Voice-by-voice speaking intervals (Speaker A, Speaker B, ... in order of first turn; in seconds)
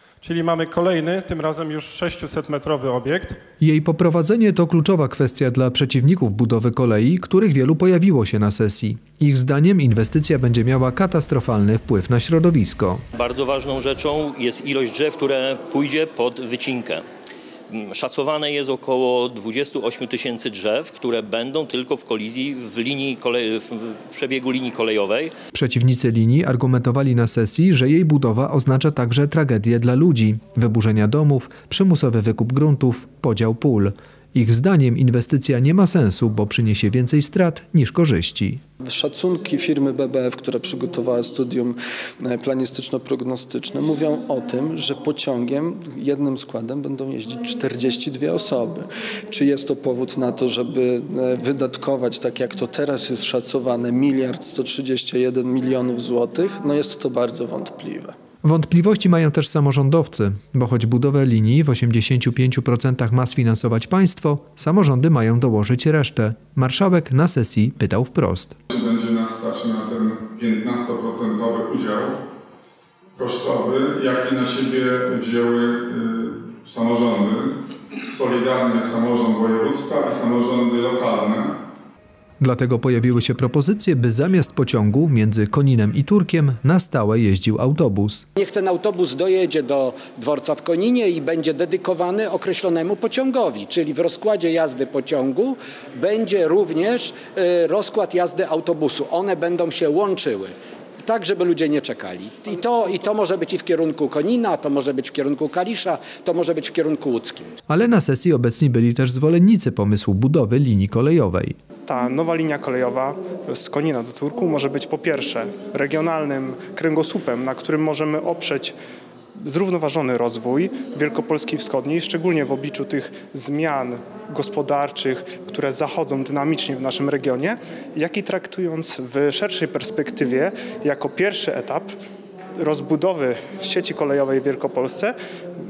Speaker A: 0.2-3.4
Speaker B: 3.6-13.0, 25.5-38.6, 58.4-68.5, 82.4-88.3, 107.7-111.5
Speaker C: 13.1-17.0, 17.7-25.3
Speaker D: 38.8-58.1
Speaker E: 68.7-72.2, 73.2-77.5, 78.1-81.5
Speaker F: 88.4-100.5, 101.0-107.5
Speaker G: 111.8-118.8, 119.4-131.9, 132.6-135.2